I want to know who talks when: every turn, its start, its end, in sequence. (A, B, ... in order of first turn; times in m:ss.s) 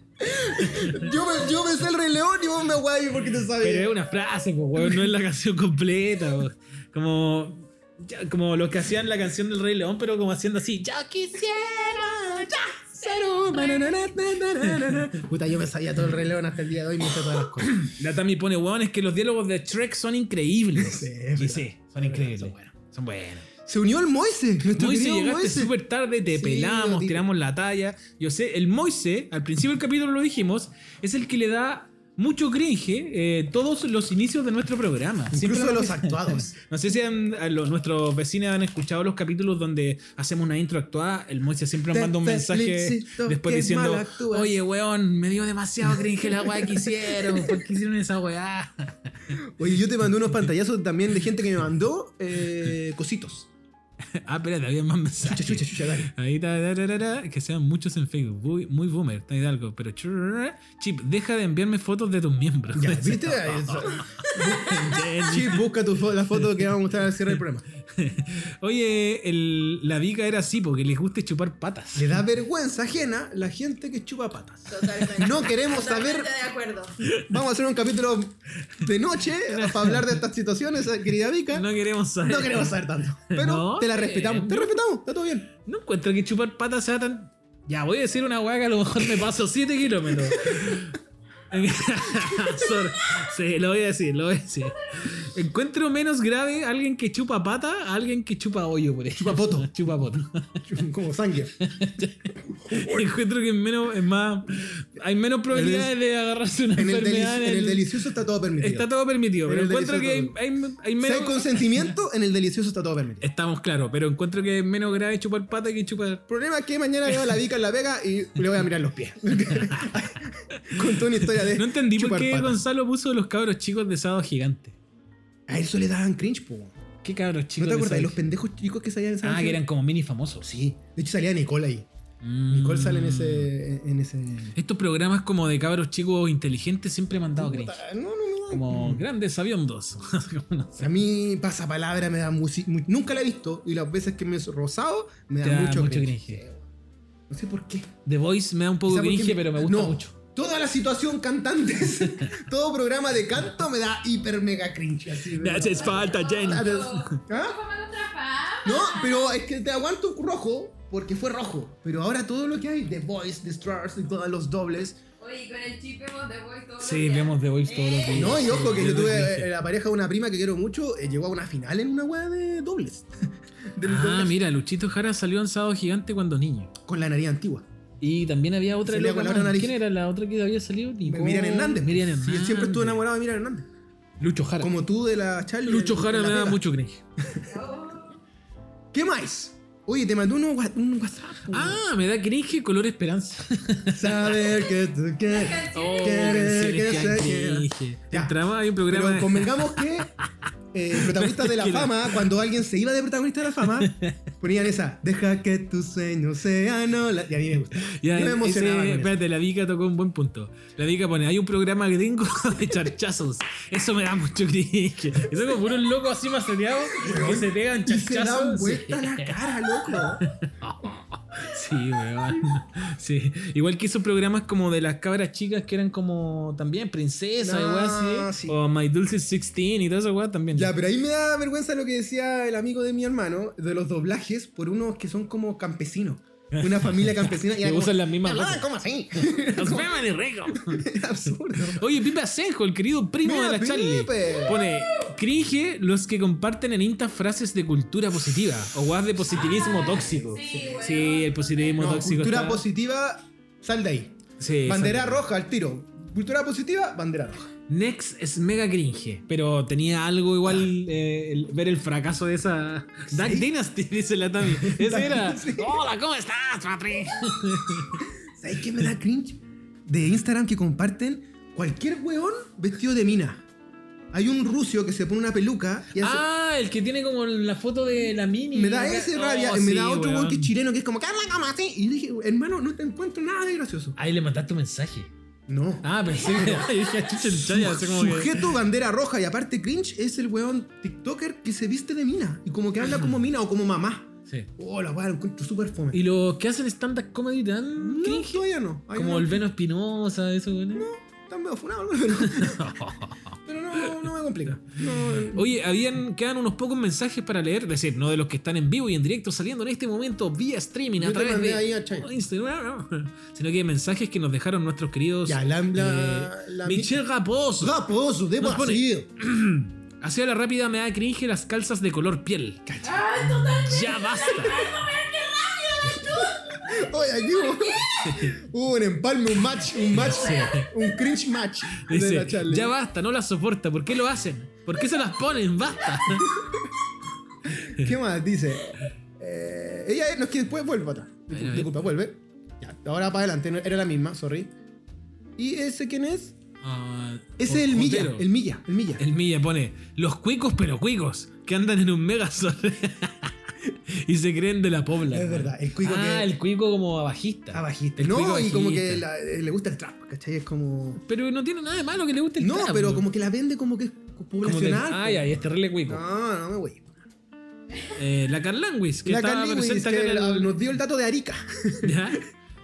0:00.2-0:03.9 A
0:00.5-0:01.1 B
0:03.6-0:13.0 B
0:04.8-0:05.0 A
0:12.4-0:17.9 A
0:17.7-0:23.5 B
0:20.7-0:22.6 A
0:23.6-0:27.3 A
0:24.7-0:49.4 B
0:35.3-0:36.5 A
0:41.9-0:44.6 A
0:45.9-0:47.6 A
0:49.4-0:53.5 A
0:54.1-1:05.6 B
0:55.2-0:56.1 A
1:02.7-1:07.6 A
1:06.4-1:06.7 B
1:07.9-1:12.2 B
1:11.9-1:16.3 A
1:14.7-1:16.9 C
1:17.0-1:17.3 B
1:17.2-1:21.6 A
1:19.4-1:20.2 B
1:21.5-1:22.8 B
1:22.2-1:25.5 A
1:23.3-1:24.7 B
1:25.6-1:31.0 B
1:30.3-1:30.8 A
1:31.5-1:40.6 B
1:32.3-1:32.6 A
1:39.2-1:39.7 A
1:40.6-1:41.6 A
1:41.6-1:48.0 B
1:42.5-1:43.1 A
1:45.5-1:45.9 A
1:46.7-1:48.9 A
1:48.6-1:51.9 B
1:49.4-1:50.4 A
1:51.0-1:53.2 A
1:53.2-1:56.2 B
1:56.3-2:02.6 A
2:00.5-2:04.8 B
2:05.5-2:06.8 A
2:07.0-2:08.2 B
2:07.6-2:09.6 A
2:09.2-2:10.5 B
2:10.4-2:11.9 A
2:12.2-2:13.5 B
2:12.5-2:14.6 A
2:14.6-2:17.8 B
2:17.3-2:19.0 A
2:18.5-2:20.9 B
2:20.8-2:26.6 A
2:25.4-2:26.4 B
2:27.3-2:27.9 A
2:28.0-2:30.1 B
2:28.9-2:37.6 A
2:35.3-2:37.2 B
2:35.7-2:39.3 C
2:38.6-2:45.0 A
2:45.2-2:48.5 C
2:46.8-2:49.5 B
2:48.1-2:53.1 A
2:53.7-2:54.4 A
2:53.8-2:56.7 B
2:56.8-2:57.6 A
2:58.0-3:03.0 B
2:58.8-2:59.8 A
3:01.0-3:03.7 A
3:04.2-3:04.7 B
3:04.6-3:06.6 A
3:05.6-3:07.0 B
3:07.2-3:07.5 A
3:07.5-3:08.2 C
3:08.9-3:11.8 A
3:11.5-3:14.4 B
3:13.9-3:20.1 A
3:15.3-3:16.4 C
3:15.7-3:20.3 B
3:20.7-3:29.2 A
3:20.9-3:22.2 B
3:23.8-3:24.2 B
3:27.8-3:39.3 B
3:36.9-3:40.2 A
3:39.9-3:50.7 B
3:47.4-3:48.6 A
3:50.5-4:00.0 A
3:56.5-3:58.6 B
3:59.4-4:00.9 B
4:00.5-4:02.0 A
4:01.7-4:12.6 B
4:03.2-4:04.6 A
4:09.3-4:11.7 C
4:09.5-4:10.7 A
4:11.8-4:17.5 A
4:14.4-4:15.2 B
4:17.7-4:28.1 B
4:23.1-4:23.5 A
4:24.4-4:25.8 A
4:28.2-4:33.4 A
4:34.1-4:36.2 A
4:36.0-4:40.5 B
4:38.5-4:44.0 A
4:44.0-4:45.1 B
4:45.5-4:56.0 A
4:45.8-4:48.5 B
4:55.9-5:00.9 B
4:57.8-4:59.4 A
5:00.7-5:02.9 A
5:02.2-5:17.8 B
5:03.4-5:05.6 A
5:11.0-5:12.1 A
5:15.2-5:16.9 A
5:17.6-5:19.1 A
5:18.4-5:24.7 B
5:22.7-5:23.5 A
5:22.9-5:26.6 C
5:25.9-5:32.7 A
5:27.4-5:28.0 C
5:28.0-5:28.4 B
5:29.9-5:30.7 B
5:31.7-5:36.4 B
5:36.0-5:36.7 A
5:37.4-5:44.5 A
5:37.5-5:37.9 B
5:41.3-5:41.7 B
5:45.4-5:46.4 A
5:46.6-5:48.3 B
5:47.4-5:49.0 A
5:49.0-5:59.0 B
5:55.0-5:56.3 A
5:57.5-6:01.0 A
6:01.0-6:03.1 B
6:02.4-6:05.3 A
6:04.4-6:06.0 B
6:05.9-6:07.0 A
6:07.9-6:10.5 B
6:09.0-6:12.2 A
6:11.8-6:12.2 B